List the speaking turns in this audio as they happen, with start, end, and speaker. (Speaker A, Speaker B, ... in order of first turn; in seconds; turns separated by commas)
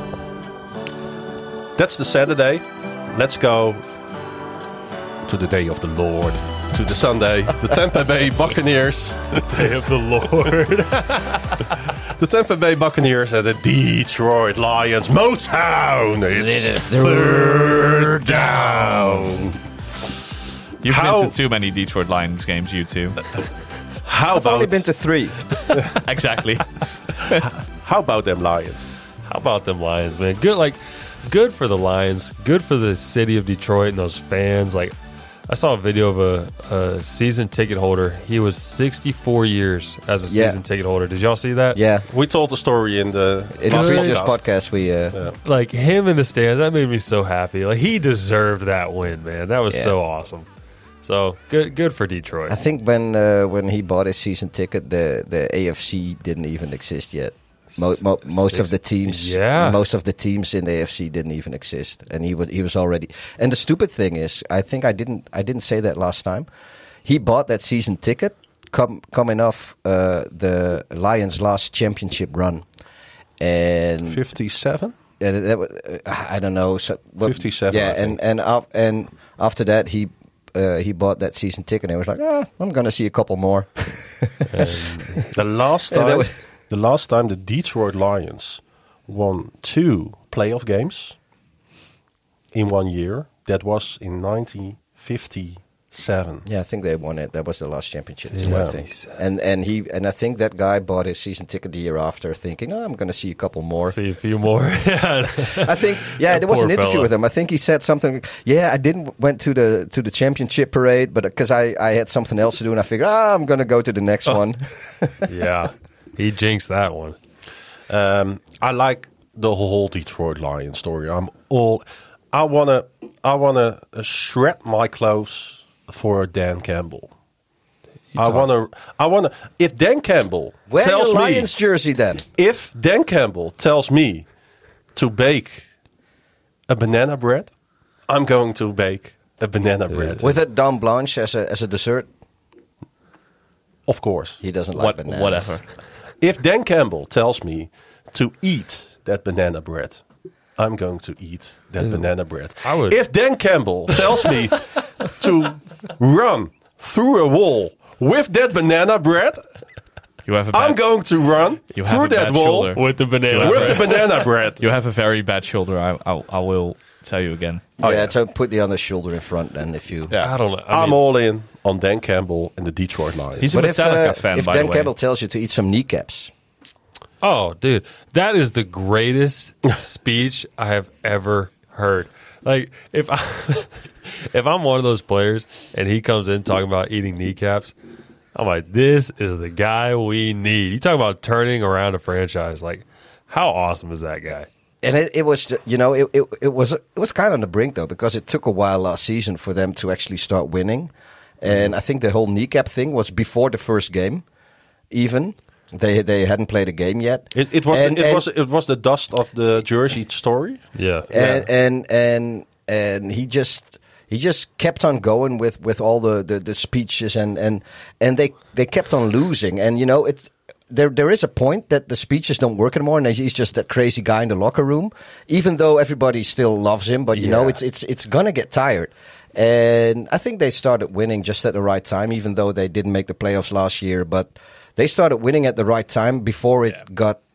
Speaker A: 1.8-3.8, Speaker A: 5.3-9.7, Speaker B: 9.5-11.6, Speaker A: 12.0-19.6, Speaker C: 16.3-19.5, Speaker D: 20.8-23.2, Speaker A: 20.8-21.4, Speaker A: 24.0-24.8, Speaker C: 24.3-25.4, Speaker D: 25.9-27.4, Speaker A: 27.3-28.9, Speaker B: 29.2-34.9, Speaker B: 35.5-41.8, Speaker C: 40.3-40.6, Speaker C: 41.7-42.1, Speaker A: 42.1-44.5, Speaker C: 43.6-45.2, Speaker B: 43.7-44.3, Speaker B: 45.4-50.5, Speaker C: 49.7-50.0, Speaker B: 51.0-52.6, Speaker C: 52.5-66.5, Speaker B: 57.7-59.8, Speaker C: 67.0-72.7, Speaker C: 73.4-74.2, Speaker A: 74.1-75.0, Speaker C: 75.2-85.3, Speaker A: 77.2-78.2, Speaker B: 84.5-85.2, Speaker A: 85.3-91.2, Speaker C: 85.9-86.4, Speaker A: 92.5-96.5, Speaker C: 96.5-104.0, Speaker B: 98.3-99.2, Speaker A: 98.5-98.8, Speaker B: 103.9-107.1, Speaker C: 105.6-115.3, Speaker B: 115.3-117.2, Speaker A: 117.9-127.1, Speaker B: 128.1-128.5, Speaker A: 128.2-131.5, Speaker C: 130.7-132.2, Speaker A: 132.3-134.3, Speaker A: 134.9-135.7, Speaker A: 136.7-137.5, Speaker A: 138.1-140.3, Speaker B: 139.9-140.2, Speaker C: 140.2-142.1, Speaker A: 143.9-144.4, Speaker C: 144.4-145.6, Speaker D: 144.8-145.7, Speaker A: 146.2-150.0, Speaker A: 150.6-159.4, Speaker B: 151.8-152.1, Speaker B: 152.6-153.0, Speaker D: 160.3-160.9, Speaker A: 160.5-162.8, Speaker D: 161.7-167.7, Speaker B: 162.7-164.2, Speaker A: 163.3-164.6, Speaker C: 167.8-170.1, Speaker A: 167.8-168.1, Speaker D: 170.1-170.3, Speaker B: 170.2-171.0, Speaker A: 170.7-173.5, Speaker D: 173.4-174.9, Speaker C: 173.5-176.3, Speaker B: 177.2-187.7, Speaker B: 188.3-194.5, Speaker C: 194.8-204.2, Speaker C: 204.9-208.3, Speaker A: 207.3-210.7, Speaker B: 210.8-211.1, Speaker C: 211.1-237.2, Speaker B: 227.2-227.6